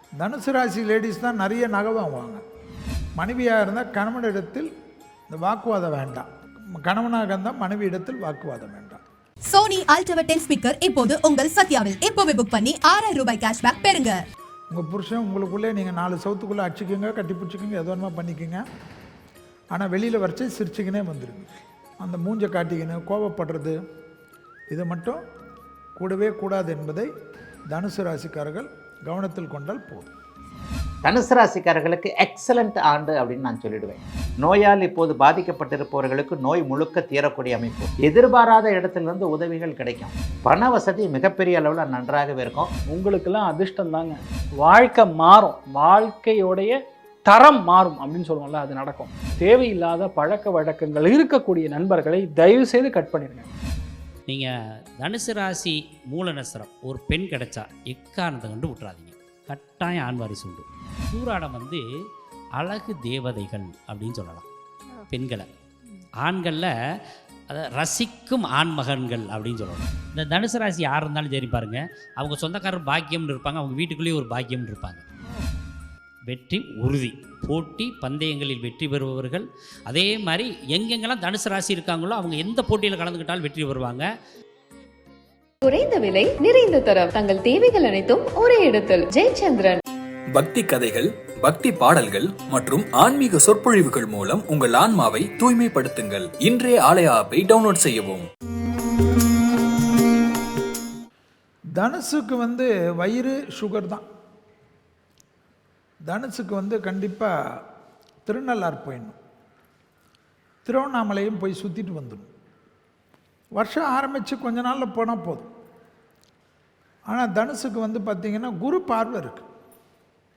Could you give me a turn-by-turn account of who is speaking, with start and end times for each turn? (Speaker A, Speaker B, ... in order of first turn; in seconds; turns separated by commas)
Speaker A: 0.2-2.4, Speaker A: 3.2-4.7, Speaker A: 5.3-6.3, Speaker A: 6.8-9.0, Speaker B: 9.5-14.2, Speaker A: 14.7-18.6, Speaker A: 19.7-21.5, Speaker A: 22.0-23.8, Speaker A: 24.7-25.2, Speaker A: 26.0-27.1, Speaker A: 27.7-30.1, Speaker C: 31.1-42.7, Speaker D: 42.9-46.8, Speaker D: 47.3-53.5, Speaker E: 55.0-61.8, Speaker E: 62.6-64.5, Speaker E: 65.1-65.5, Speaker E: 66.2-66.7, Speaker E: 67.5-75.0, Speaker E: 76.3-84.0, Speaker F: 85.6-89.8, Speaker G: 90.3-98.3, Speaker A: 101.8-104.1, Speaker A: 106.1-107.3, Speaker A: 108.2-109.2, Speaker A: 110.7-112.3, Speaker A: 113.6-115.5, Speaker A: 117.1-119.5